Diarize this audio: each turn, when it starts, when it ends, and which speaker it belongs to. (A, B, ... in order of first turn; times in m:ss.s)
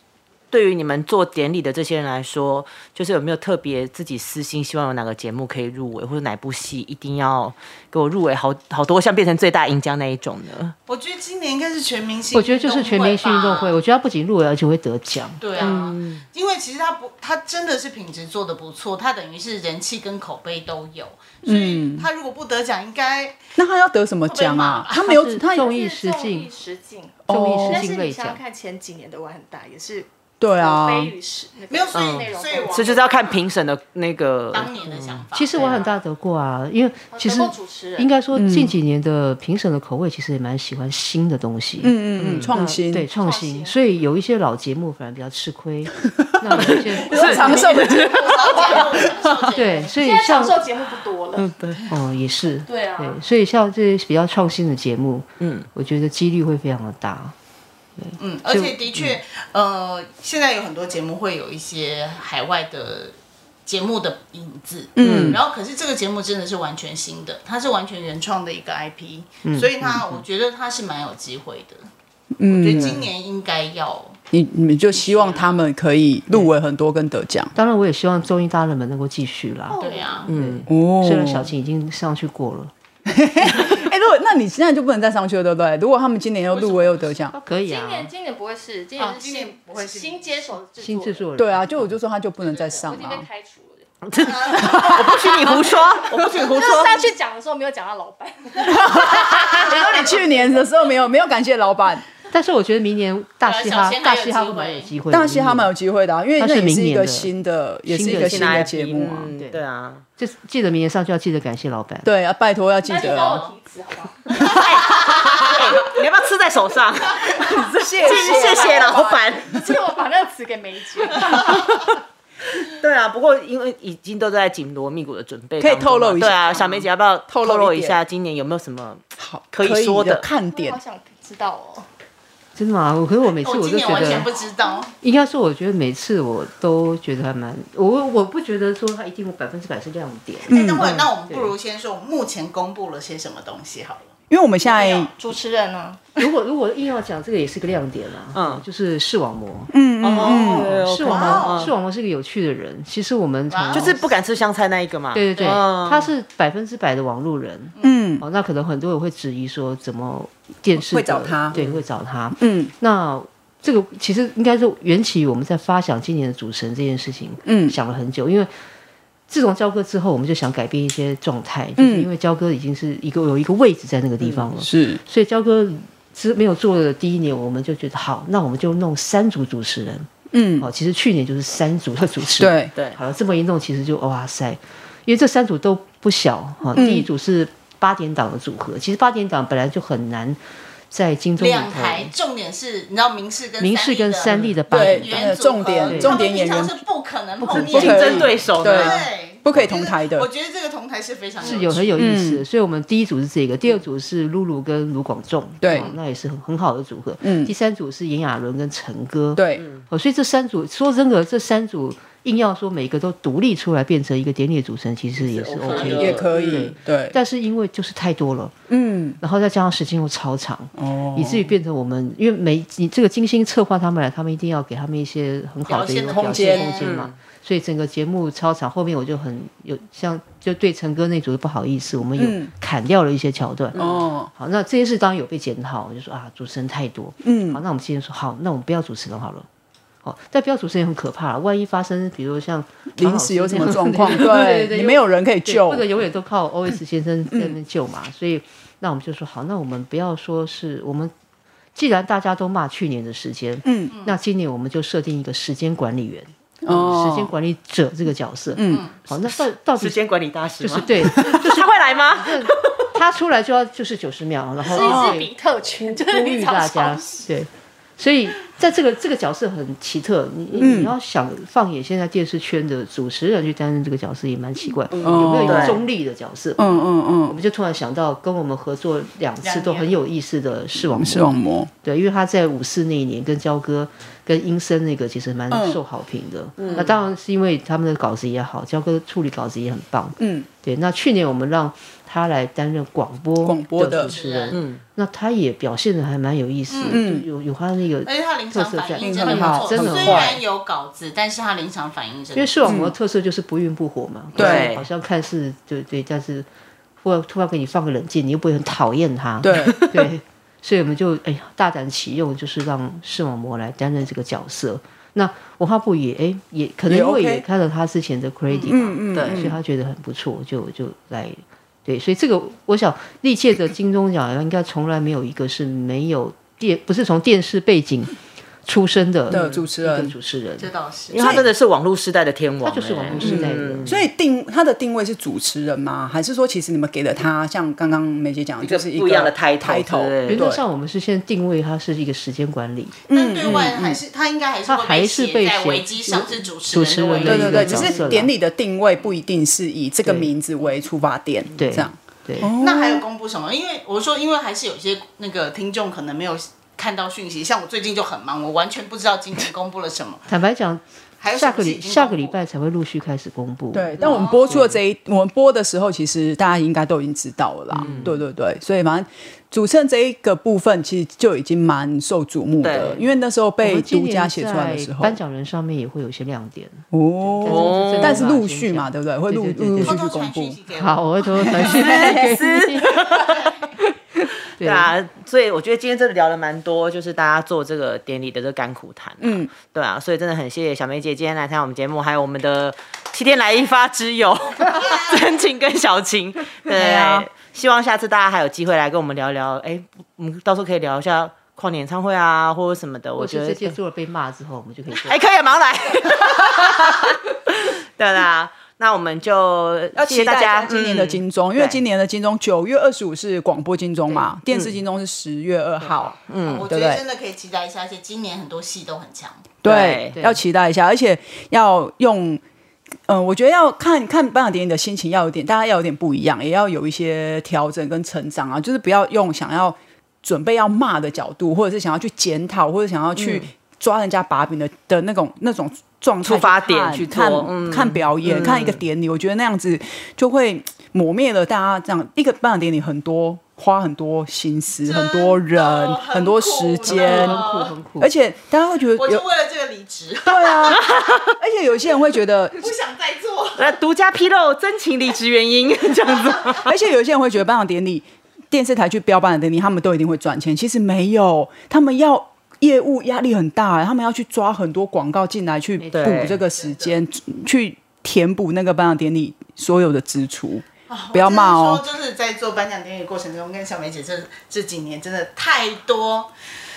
0:00.5-0:10.7 A
0:10.9-0:13.8 B
0:12.3-0:15.8 C
0:15.4-0:23.4 B
0:15.6-0:16.2 A
0:21.4-0:22.1 D
0:23.6-0:25.7 D
0:24.3-0:25.0 B
0:25.0-0:26.5 C
0:25.5-0:33.0 E
0:27.3-0:27.8 D
0:27.3-0:28.4 C
0:30.4-0:31.1 D
0:31.7-0:33.4 B
0:31.9-0:35.2 A
0:34.5-0:35.8 B
0:35.3-0:47.5 C
0:35.6-0:36.0 E
0:37.1-0:38.1 E
0:38.3-0:38.8 D
0:41.8-0:43.0 D
0:42.2-0:42.5 A
0:43.1-0:43.8 E
0:46.5-0:48.3 D
0:47.1-0:48.6 A
0:47.2-0:51.6 E
0:47.4-0:50.0 B
0:49.5-0:50.7 C
0:51.4-0:51.9 A
0:51.9-0:57.3 C
0:52.6-0:53.2 E
0:55.4-0:55.7 A
0:58.0-0:59.2 C
0:58.2-1:03.1 B
1:03.6-1:11.8 B
1:05.0-1:05.4 D
1:05.0-1:05.4 A
1:09.4-1:10.0 C
1:12.4-1:13.0 D
1:12.4-1:14.2 B
1:12.7-1:13.0 A
1:14.3-1:17.5 D
1:14.9-1:15.7 B
1:17.5-1:22.7 C
1:19.7-1:20.3 B
1:19.7-1:20.3 E
1:20.3-1:20.6 A
1:20.7-1:21.5 D
1:23.1-1:27.4 D
1:26.5-1:27.1 B
1:27.3-1:28.1 C
1:27.6-1:31.3 E
1:29.0-1:30.5 B
1:30.8-1:31.9 C
1:31.4-1:33.2 D
1:32.4-1:33.9 E
1:34.0-1:37.1 A
1:34.2-1:35.1 B
1:34.5-1:40.7 E
1:38.6-1:42.0 D
1:42.3-1:45.7 C
1:43.4-1:44.9 B
1:45.1-1:49.3 D
1:46.4-1:47.3 C
1:47.8-1:48.7 C
1:48.0-1:50.0 A
1:49.3-1:49.6 C
1:50.2-1:52.1 C
1:52.0-1:53.5 D
1:52.8-1:54.8 E
1:54.4-1:54.7 D
1:54.5-1:59.7 A
1:57.3-2:01.6 E
1:57.5-1:58.9 D
1:58.1-1:59.0 B
2:01.3-2:01.9 A
2:02.6-2:10.2 A
2:05.6-2:08.0 D
2:09.2-2:10.8 D
2:10.4-2:11.9 E
2:12.6-2:14.3 C
2:13.4-2:14.9 B
2:14.0-2:14.8 E
2:15.0-2:21.5 C
2:20.5-2:24.1 B
2:20.5-2:21.1 D
2:24.3-2:25.1 D
2:24.6-2:26.3 E
2:26.2-2:29.7 C
2:28.3-2:28.6 A
2:29.7-2:30.7 D
2:30.0-2:31.7 A
2:30.5-2:34.0 C
2:31.0-2:31.7 B
2:33.5-2:34.1 B
2:33.7-2:36.1 A
2:35.1-2:48.5 C
2:37.8-2:38.2 D
2:40.8-2:41.6 D
2:41.5-2:41.8 A
2:42.4-2:42.7 D
2:47.4-2:47.8 D
2:49.3-3:10.4 C
2:51.8-2:52.1 D
2:54.6-2:55.0 D
3:00.3-3:00.7 D
3:02.4-3:02.7 D
3:06.7-3:07.1 D
3:10.9-3:12.1 C
3:11.4-3:22.0 B
3:13.6-3:16.2 C
3:14.3-3:14.5 A
3:14.7-3:16.8 D
3:17.4-3:20.3 D
3:17.4-3:19.1 A
3:21.4-3:38.5 C
3:22.0-3:22.4 D
3:25.6-3:25.9 D
3:27.2-3:27.5 D
3:29.3-3:29.6 D
3:29.6-3:29.8 A
3:35.2-3:36.7 A
3:35.6-3:36.1 B
3:35.9-3:37.2 D
3:38.7-3:39.2 D
3:39.2-3:53.8 C
3:40.8-3:41.5 D
3:45.7-3:47.1 B
3:46.1-3:46.8 D
3:46.8-3:47.1 A
3:52.2-3:52.5 D
3:53.7-3:54.0 A
3:53.7-3:54.3 D
3:54.3-3:59.5 C
3:57.2-3:57.6 D
4:00.0-4:11.1 C
4:02.9-4:05.9 D
4:07.3-4:07.6 D
4:11.7-4:20.0 C
4:13.6-4:13.9 D
4:13.9-4:14.2 B
4:16.6-4:17.3 D
4:18.5-4:18.8 D
4:18.7-4:19.0 B
4:19.8-4:22.8 A
4:20.6-4:36.7 C
4:24.7-4:27.3 E
4:24.8-4:25.1 D
4:30.6-4:30.9 D
4:34.9-4:35.8 A
4:35.0-4:35.8 D
4:36.6-4:37.4 D
4:37.2-5:00.4 C
4:39.4-4:40.0 B
4:40.8-4:41.7 D
4:45.5-4:45.8 D
4:46.6-4:46.9 A
4:50.2-4:50.5 D
4:53.4-4:54.1 D
4:54.0-4:54.6 B
4:54.5-4:54.8 A
4:56.7-4:57.1 B
4:56.9-4:57.3 D
4:58.0-5:02.7 B
4:59.0-5:00.4 D
5:02.3-5:06.5 C
5:02.6-5:02.9 D
5:04.3-5:04.7 D
5:04.3-5:04.9 A
5:07.0-5:28.1 C
5:09.4-5:10.1 D
5:16.9-5:17.4 D
5:18.5-5:18.8 B
5:18.7-5:19.6 D
5:19.1-5:19.5 A
5:28.6-5:30.7 C
5:29.3-5:30.1 D
5:29.3-5:29.6 A
5:30.6-5:31.4 B
5:31.1-5:34.0 A
5:31.1-5:31.5 D
5:32.6-5:34.0 C
5:33.2-5:40.6 D
5:38.6-5:40.4 A
5:40.3-5:43.0 C
5:43.1-5:44.0 D
5:43.1-5:47.9 B
5:44.7-5:48.3 C
5:47.2-5:53.0 D
5:47.3-5:47.9 A
5:50.0-5:50.3 C
5:51.5-5:52.5 C
5:52.5-6:00.3 B
6:00.3-6:04.7 C
6:01.2-6:02.4 B
6:03.7-6:15.2 D
6:04.0-6:04.6 B
6:07.7-6:08.1 C
6:07.8-6:08.1 A
6:12.6-6:13.1 A
6:13.6-6:20.0 C
6:16.9-6:20.6 D
6:17.4-6:18.2 A
6:19.8-6:21.6 B
6:20.7-6:23.0 C
6:21.4-6:22.4 D
6:21.8-6:23.6 A
6:24.6-6:24.9 C
6:24.6-6:43.8 A
6:29.2-6:29.5 D
6:34.7-6:35.2 B
6:36.7-6:37.3 D
6:43.2-6:45.2 C
6:44.9-6:51.8 A
6:50.0-6:57.0 D
6:56.3-6:56.6 A
6:56.4-6:59.5 B
6:59.6-7:02.4 D
6:59.6-7:00.2 A
7:00.1-7:00.4 C
7:03.1-7:27.4 D
7:13.2-7:13.4 A
7:16.2-7:18.8 A
7:24.8-7:27.7 B
7:26.8-7:28.1 C
7:28.0-7:29.2 D
7:29.0-7:31.0 B
7:30.2-7:32.6 D
7:30.8-7:31.3 A
7:32.6-7:33.8 B
7:33.6-7:36.7 A
7:36.6-7:51.8 D
7:45.9-7:46.4 A
7:46.0-7:46.2 C
7:46.5-7:47.0 B
7:50.9-7:56.3 B